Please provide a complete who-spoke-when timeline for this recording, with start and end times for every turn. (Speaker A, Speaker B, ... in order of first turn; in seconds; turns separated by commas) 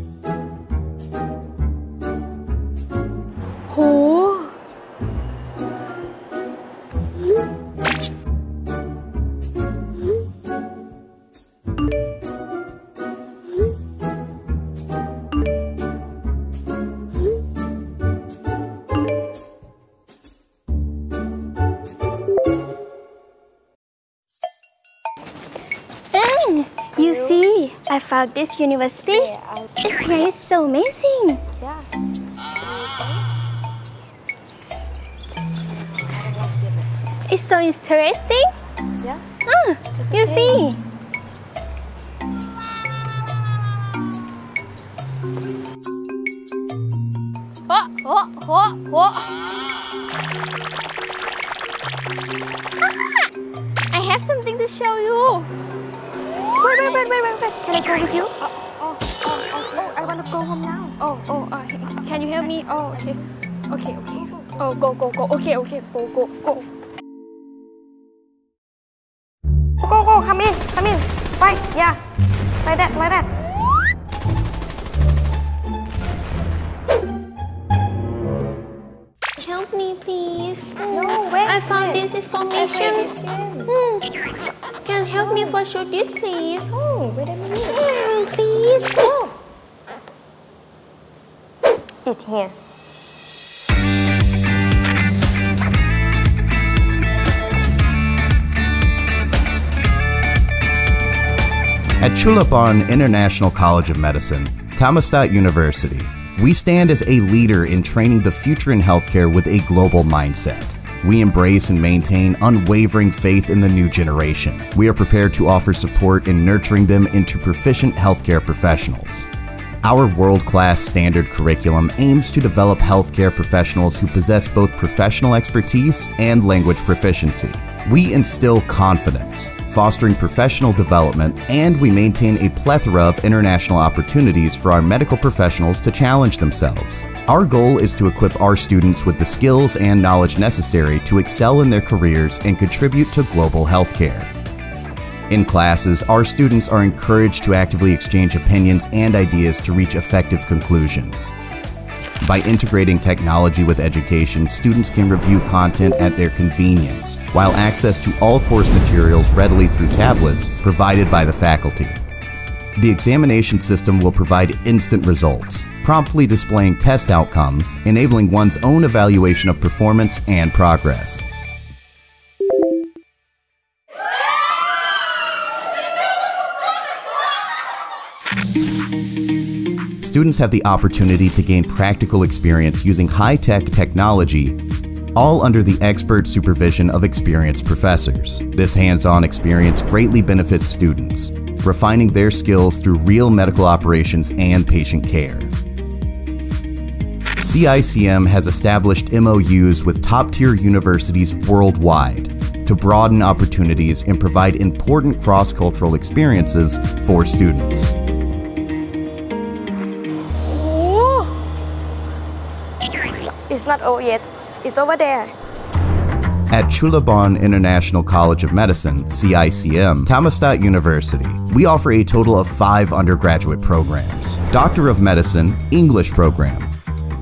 Speaker A: 3.7-4.5, Speaker A: 26.1-31.4, Speaker B: 27.0-27.4, Speaker B: 29.2-29.7, Speaker B: 31.6-31.9, Speaker B: 32.6-33.2, Speaker B: 36.0-36.9, Speaker A: 37.3-38.5, Speaker A: 39.5-40.8, Speaker B: 40.0-40.7, Speaker A: 47.7-49.3, Speaker A: 53.9-55.5, Speaker B: 56.6-58.4, Speaker A: 58.5-59.7, Speaker B: 59.4-61.0, Speaker A: 61.0-66.7, Speaker B: 64.2-64.5, Speaker B: 69.8-72.0, Speaker B: 72.6-73.3, Speaker A: 79.4-83.1, Speaker B: 80.9-83.7, Speaker A: 83.7-84.1, Speaker A: 84.8-86.7, Speaker B: 85.2-85.6, Speaker B: 86.7-87.9, Speaker A: 87.7-89.2, Speaker B: 89.1-89.3, Speaker B: 92.0-92.5, Speaker C: 102.0-119.3, Speaker C: 119.8-144.3, Speaker C: 145.3-151.3, Speaker C: 152.2-162.0, Speaker C: 162.8-171.2, Speaker C: 180.0-184.6, Speaker C: 185.1-195.5, Speaker C: 197.4-207.9, Speaker A: 210.5-211.3, Speaker B: 213.5-215.3, Speaker C: 216.5-226.7